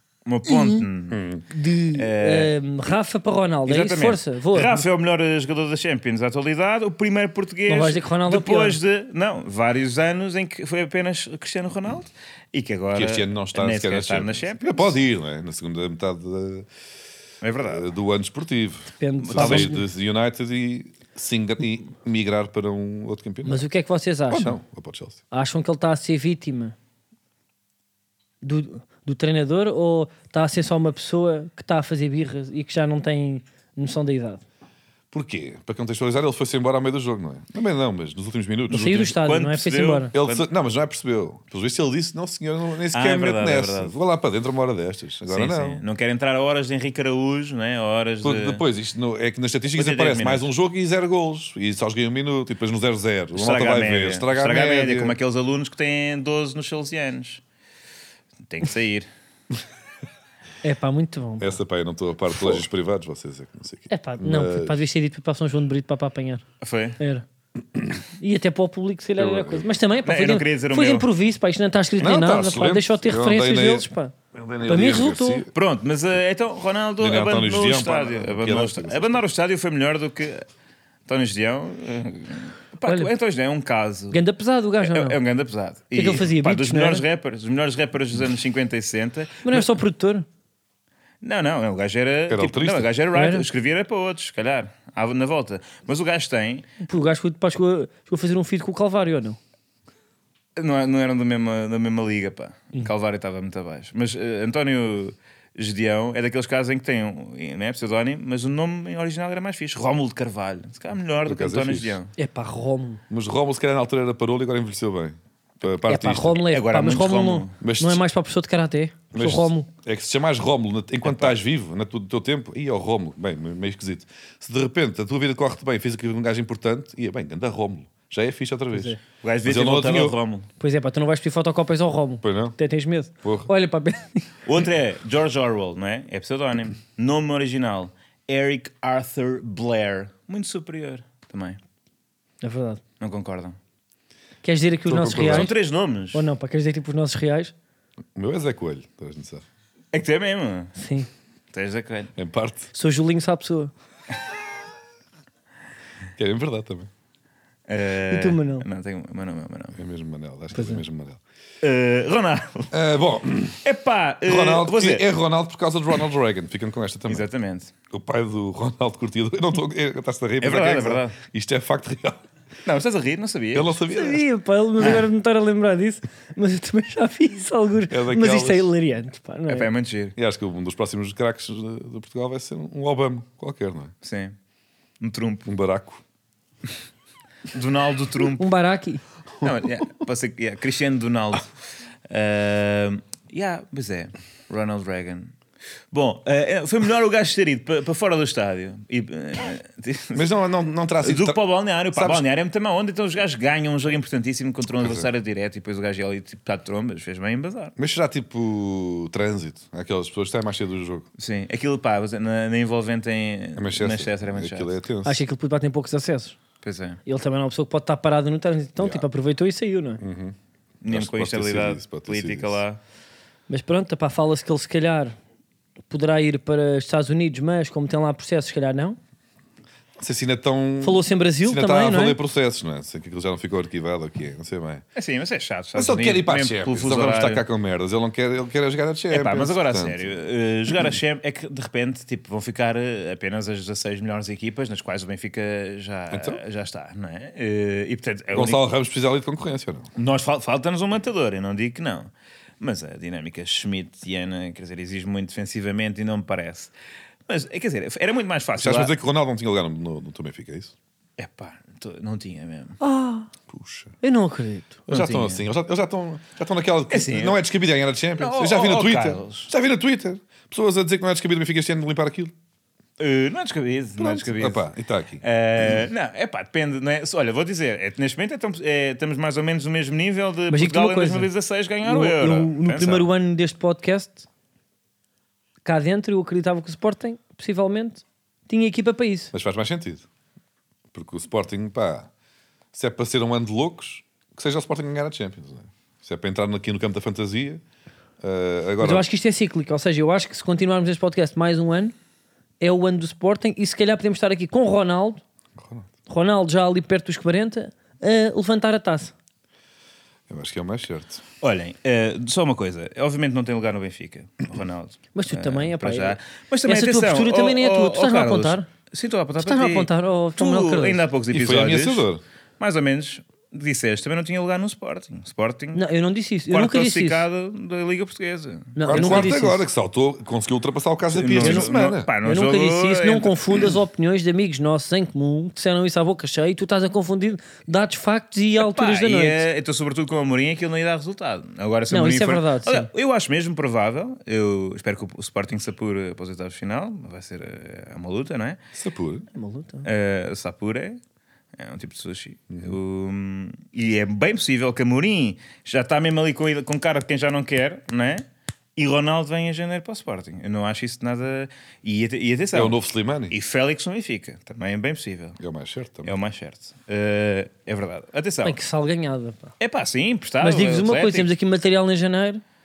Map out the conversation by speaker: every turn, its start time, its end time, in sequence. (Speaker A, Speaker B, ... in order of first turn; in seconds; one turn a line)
Speaker A: 0.2-1.2
Speaker B: 0.5-0.8
Speaker C: 1.1-1.4
Speaker B: 1.5-4.8
Speaker A: 1.9-2.5
Speaker A: 3.7-14.9
Speaker B: 7.7-8.8
Speaker C: 12.9-16.7
Speaker A: 17.4-17.9
Speaker C: 17.6-23.6
Speaker B: 19.0-19.8
Speaker A: 19.2-19.7
Speaker B: 23.4-24.6
Speaker C: 24.3-25.2
Speaker B: 25.3-26.7
Speaker B: 28.4-34.4
Speaker C: 35.1-39.1
Speaker B: 38.7-40.1
Speaker A: 38.9-40.4
Speaker C: 40.1-45.8
Speaker A: 42.9-43.9
Speaker A: 45.3-48.6
Speaker C: 48.2-55.1
Speaker A: 49.7-50.4
Speaker A: 53.4-57.4
Speaker A: 58.5-59.1
Speaker B: 60.6-61.6
Speaker C: 61.4-64.8
Speaker B: 63.9-66.4
Speaker A: 66.6-67.0
Speaker B: 67.0-67.2
Speaker B: 68.2-74.1
Speaker C: 69.2-69.7
Speaker A: 70.0-71.1
Speaker C: 72.0-75.5
Speaker B: 74.6-75.4
Speaker A: 75.5-80.4
Speaker C: 77.0-79.2
Speaker A: 81.1-84.2
Speaker B: 82.8-83.1
Speaker B: 84.1-85.2
Speaker A: 84.8-89.7
Speaker B: 85.9-87.0
Speaker B: 89.4-90.2
Speaker A: 91.2-96.7
Speaker C: 92.3-92.9
Speaker B: 93.1-93.5
Speaker B: 96.8-99.4
Speaker A: 100.6-112.1
Speaker C: 111.2-112.0
Speaker B: 112.2-113.0
Speaker C: 113.1-116.4
Speaker B: 115.9-119.7
Speaker A: 116.5-117.5
Speaker C: 117.6-118.0
Speaker C: 119.1-130.2
Speaker A: 121.0-121.3
Speaker A: 129.2-130.5
Speaker B: 130.6-134.2
Speaker C: 132.2-132.6
Speaker C: 133.2-133.5
Speaker A: 134.4-141.6
Speaker B: 142.4-142.8
Speaker A: 143.0-143.6
Speaker B: 144.4-145.5
Speaker C: 144.9-145.5
Speaker A: 145.1-146.2
Speaker B: 146.1-147.5
Speaker C: 148.1-149.4
Speaker A: 149.9-150.7
Speaker B: 150.8-151.1
Speaker A: 151.5-152.1
Speaker C: 152.2-152.7
Speaker B: 152.7-153.7
Speaker C: 156.2-156.9
Speaker A: 157.7-159.8
Speaker B: 158.1-158.6
Speaker C: 159.8-161.2
Speaker B: 160.5-160.8
Speaker A: 161.6-162.7
Speaker C: 162.7-163.6
Speaker A: 163.6-165.1
Speaker C: 164.2-167.3
Speaker A: 167.1-167.7
Speaker C: 167.9-172.2
Speaker A: 170.4-171.2
Speaker A: 172.7-173.8
Speaker C: 173.5-174.2
Speaker B: 173.9-179.7
Speaker C: 177.9-178.7
Speaker A: 179.5-180.1
Speaker C: 180.2-183.9
Speaker A: 184.0-184.3
Speaker A: 185.0-185.5
Speaker C: 185.4-186.0
Speaker A: 187.5-188.4
Speaker B: 188.4-189.0
Speaker A: 189.4-191.5
Speaker A: 192.1-195.3
Speaker A: 195.9-200.3
Speaker C: 200.1-201.4
Speaker A: 201.0-207.7
Speaker C: 201.9-202.2
Speaker C: 204.8-205.1
Speaker C: 207.8-211.1
Speaker A: 211.2-214.8
Speaker C: 213.6-215.2
Speaker B: 215.0-216.4
Speaker A: 216.6-217.0
Speaker B: 217.1-220.0
Speaker C: 218.8-219.0
Speaker C: 220.0-222.6
Speaker A: 220.8-222.8
Speaker B: 223.5-225.2
Speaker B: 225.9-229.0
Speaker C: 230.0-234.8
Speaker B: 230.8-232.2
Speaker A: 234.9-237.4
Speaker C: 235.7-240.0
Speaker A: 239.1-248.6
Speaker C: 246.1-246.4
Speaker C: 248.3-249.9
Speaker A: 250.0-252.1
Speaker A: 252.6-256.7
Speaker A: 257.3-258.9
Speaker C: 258.6-260.7
Speaker A: 261.2-262.8
Speaker B: 262.8-263.3
Speaker C: 263.5-263.9
Speaker B: 264.0-264.8
Speaker C: 264.9-272.3
Speaker A: 264.9-265.4
Speaker A: 266.9-267.4
Speaker A: 268.2-269.5
Speaker A: 273.0-274.7
Speaker C: 274.0-275.9
Speaker A: 275.2-283.1
Speaker B: 280.5-281.3
Speaker B: 281.9-284.2
Speaker B: 285.6-289.3
Speaker C: 289.3-290.1
Speaker C: 290.9-292.1
Speaker C: 292.7-297.6
Speaker C: 298.2-299.1
Speaker B: 298.8-301.9
Speaker B: 302.6-305.2
Speaker C: 305.6-305.9
Speaker B: 306.1-309.1
Speaker C: 310.3-311.2
Speaker A: 311.4-322.1
Speaker B: 315.1-318.7
Speaker B: 319.4-321.0
Speaker C: 321.3-322.2
Speaker A: 322.6-325.9
Speaker B: 325.7-327.2
Speaker A: 326.5-329.3
Speaker B: 328.8-329.6
Speaker C: 328.9-332.1
Speaker A: 331.1-333.4
Speaker B: 331.4-331.7
Speaker B: 332.2-339.4
Speaker A: 338.6-348.6
Speaker B: 341.9-342.9
Speaker C: 348.7-349.2
Speaker B: 349.4-349.9
Speaker A: 349.8-351.0
Speaker A: 351.6-358.2
Speaker A: 358.8-362.8
Speaker C: 362.5-363.3
Speaker A: 363.3-365.4
Speaker C: 365.4-366.1
Speaker A: 366.0-368.6
Speaker B: 368.4-369.5
Speaker A: 369.6-371.3
Speaker B: 370.4-372.4